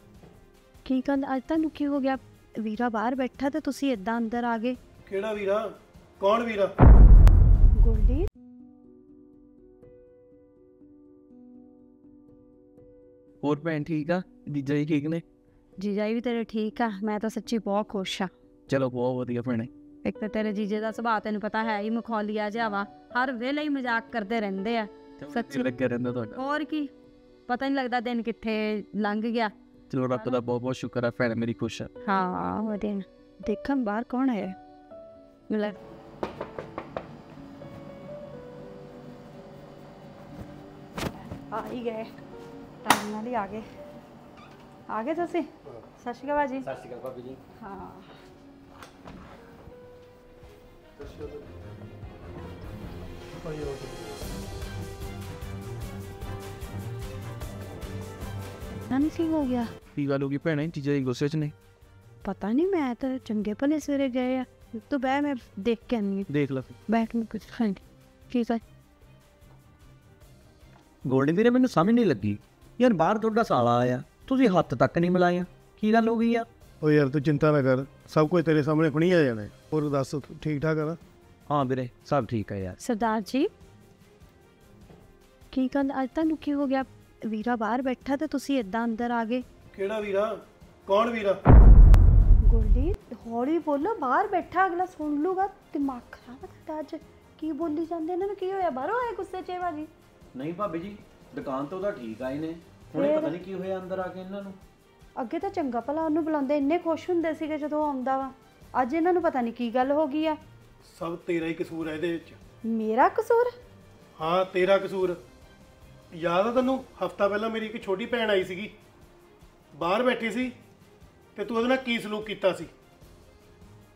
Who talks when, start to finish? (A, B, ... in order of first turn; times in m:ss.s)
0:00.8-0:04.8 A
0:05.1-0:05.6 B
0:06.2-0:06.7 B
0:07.8-0:08.3 A
0:13.4-0:15.2 C
0:15.8-0:18.3 A
0:18.7-0:19.7 C
0:20.0-0:25.7 A
0:25.2-0:26.4 C
0:26.4-0:26.9 A
0:27.5-0:29.5 A
0:29.9-0:31.9 C
0:30.1-0:30.4 A
0:32.0-0:34.6 A
0:35.5-0:35.8 A
0:41.5-0:42.1 A
0:42.8-0:43.6 A
0:44.9-0:45.5 A
0:46.0-0:46.7 A
0:46.6-0:47.4 D
0:47.6-0:48.1 A
0:51.0-0:51.4 B
0:53.4-0:54.3 B
0:58.9-0:59.7 A
1:00.0-1:01.5 C
1:02.2-1:06.3 A
1:06.3-1:06.6 D
1:06.9-1:08.6 A
1:11.1-1:16.5 D
1:16.8-1:21.0 B
1:21.5-1:22.8 D
1:22.8-1:23.5 A
1:25.5-1:29.4 A
1:29.7-1:30.3 B
1:30.9-1:31.4 B
1:32.5-1:39.9 A
1:40.4-1:44.6 D
1:42.9-1:43.4 A
1:45.2-1:50.4 A
1:50.8-1:52.4 B
1:52.7-1:53.5 A
1:54.2-1:55.2 B
1:56.1-1:58.7 B
1:59.8-2:00.5 B
2:01.4-2:02.7 B